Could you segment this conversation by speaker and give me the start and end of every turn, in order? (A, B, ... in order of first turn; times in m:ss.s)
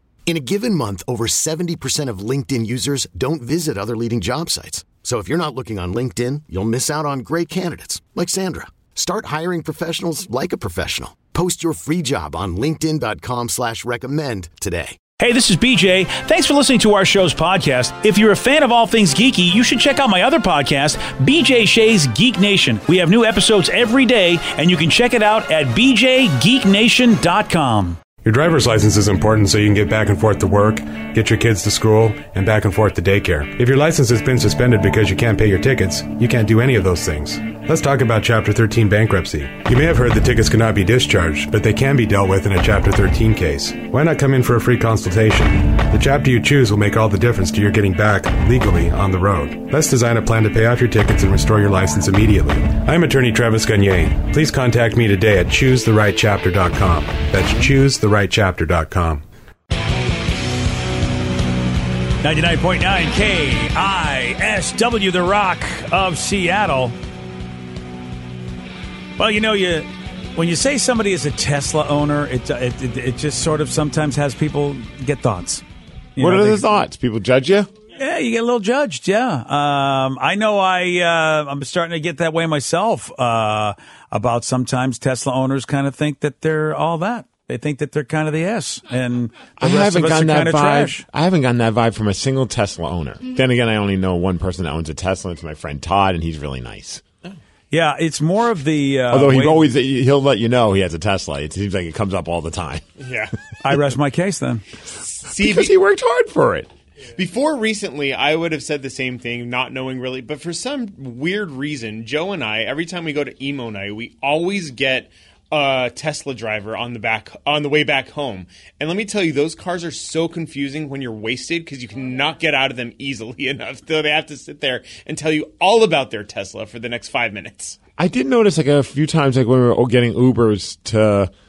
0:00.3-0:15.0 A
0:15.2-0:28.0 B
0:28.2-0:59.2 C
1:02.2-1:07.0 B
1:09.2-1:15.6 B
1:16.2-1:16.7 B
1:16.2-1:17.7 D
1:18.0-1:31.0 B
1:29.6-1:37.0 D
1:37.7-1:39.7 B
1:39.1-1:42.8 D
1:43.0-1:43.3 E
1:43.6-1:44.6 B
1:45.2-1:45.7 E
1:45.4-1:46.7 D
1:47.2-2:07.8 E
2:08.0-2:11.3 D